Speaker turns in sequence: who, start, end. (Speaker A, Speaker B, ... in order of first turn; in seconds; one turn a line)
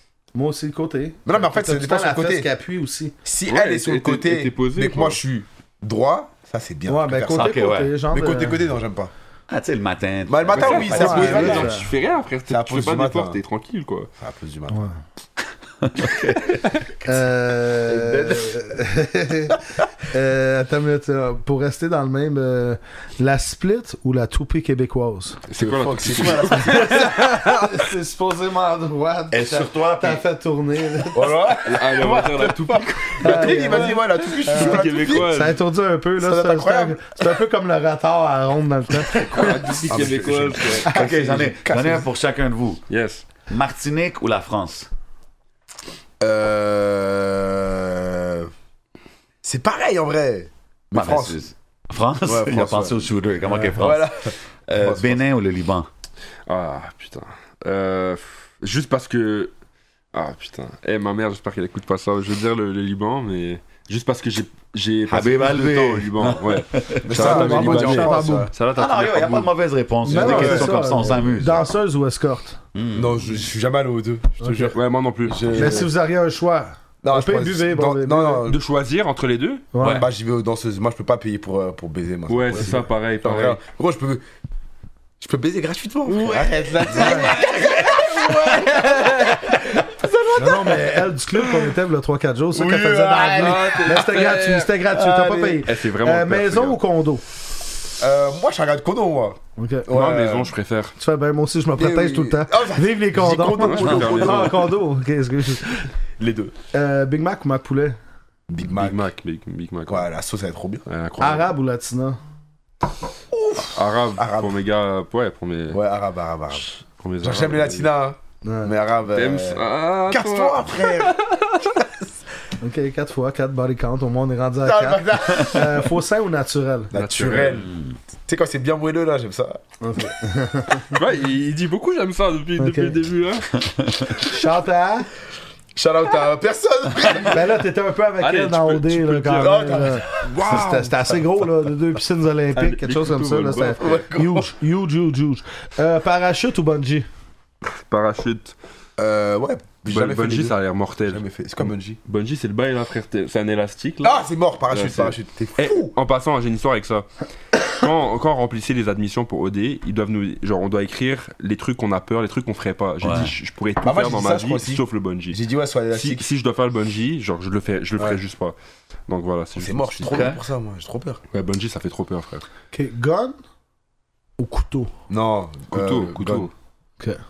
Speaker A: 0.3-3.1
Speaker B: 1.3-2.5
Speaker B: 3.2-9.1
Speaker C: 3.5-5.2
Speaker A: 6.9-8.7
Speaker D: 7.3-8.0
Speaker D: 9.5-11.6
Speaker B: 10.3-11.9
Speaker C: 10.5-14.1
Speaker A: 10.9-11.9
Speaker B: 12.5-13.4
Speaker B: 14.2-14.8
Speaker D: 15.8-16.7
Speaker A: 17.0-25.4
Speaker B: 17.9-18.5
Speaker C: 25.5-27.8
Speaker B: 25.6-27.1
Speaker A: 26.5-31.4
Speaker D: 29.3-30.2
Speaker B: 31.1-35.5
Speaker C: 31.6-35.6
Speaker A: 33.2-39.9
Speaker B: 36.2-37.4
Speaker C: 39.1-41.0
Speaker B: 39.9-42.1
Speaker A: 40.9-41.1
Speaker D: 40.9-42.8
Speaker C: 42.9-43.2
Speaker D: 43.5-44.9
Speaker B: 46.2-48.5
Speaker B: 49.4-51.4
Speaker D: 50.9-54.1
Speaker B: 52.2-55.2
Speaker D: 54.7-55.9
Speaker C: 56.5-59.5
Speaker C: 60.1-69.5
Speaker D: 65.1-67.1
Speaker B: 67.1-68.5
Speaker A: 67.1-68.5
Speaker D: 68.7-71.7
Speaker A: 70.1-72.6
Speaker B: 70.1-70.7
Speaker C: 70.1-70.7
Speaker D: 72.7-73.3
Speaker B: 73.0-75.9
Speaker A: 74.4-74.7
Speaker C: 74.5-75.9
Speaker A: 75.5-78.5
Speaker B: 77.0-78.6
Speaker C: 78.5-79.7
Speaker A: 79.7-80.0
Speaker D: 79.8-80.0
Speaker B: 79.8-84.2
Speaker C: 82.3-83.6
Speaker A: 82.5-82.8
Speaker B: 85.2-91.3
Speaker C: 86.1-89.5
Speaker A: 86.9-87.3
Speaker A: 90.4-97.2
Speaker B: 92.5-94.1
Speaker C: 93.3-96.8
Speaker B: 94.9-95.7
Speaker B: 98.0-100.5
Speaker A: 99.6-99.9
Speaker C: 99.9-101.0
Speaker A: 101.0-105.9
Speaker B: 101.8-104.7
Speaker C: 103.4-104.7
Speaker B: 106.2-106.5
Speaker A: 106.7-108.0
Speaker B: 108.5-109.1
Speaker C: 108.7-110.1
Speaker B: 109.9-110.9
Speaker C: 110.9-111.5
Speaker A: 111.2-112.2
Speaker B: 113.3-114.6
Speaker C: 113.7-115.8
Speaker B: 115.7-116.7
Speaker C: 117.0-117.9
Speaker B: 117.2-121.1
Speaker A: 118.5-118.7
Speaker C: 119.1-121.7
Speaker B: 121.7-122.0
Speaker A: 122.6-126.9
Speaker B: 124.6-126.0
Speaker B: 126.9-129.6
Speaker C: 127.0-127.7
Speaker A: 129.8-131.0
Speaker C: 130.9-133.5
Speaker A: 132.6-133.0
Speaker D: 133.7-134.1
Speaker A: 134.1-135.1
Speaker B: 135.7-137.6
Speaker A: 137.2-147.1
Speaker C: 138.2-141.2
Speaker B: 139.4-140.9
Speaker C: 142.5-144.0
Speaker B: 143.8-144.5
Speaker C: 147.7-148.6
Speaker B: 149.0-152.0
Speaker C: 149.9-151.2
Speaker C: 152.1-157.1
Speaker B: 154.0-155.9
Speaker C: 157.7-165.4
Speaker D: 163.0-163.3
Speaker B: 163.8-166.3
Speaker C: 165.9-168.6
Speaker C: 169.1-170.3
Speaker B: 169.6-171.2
Speaker D: 170.1-170.4
Speaker C: 171.3-172.4
Speaker A: 172.7-173.4
Speaker A: 174.4-174.9
Speaker B: 175.1-176.5
Speaker C: 175.7-176.5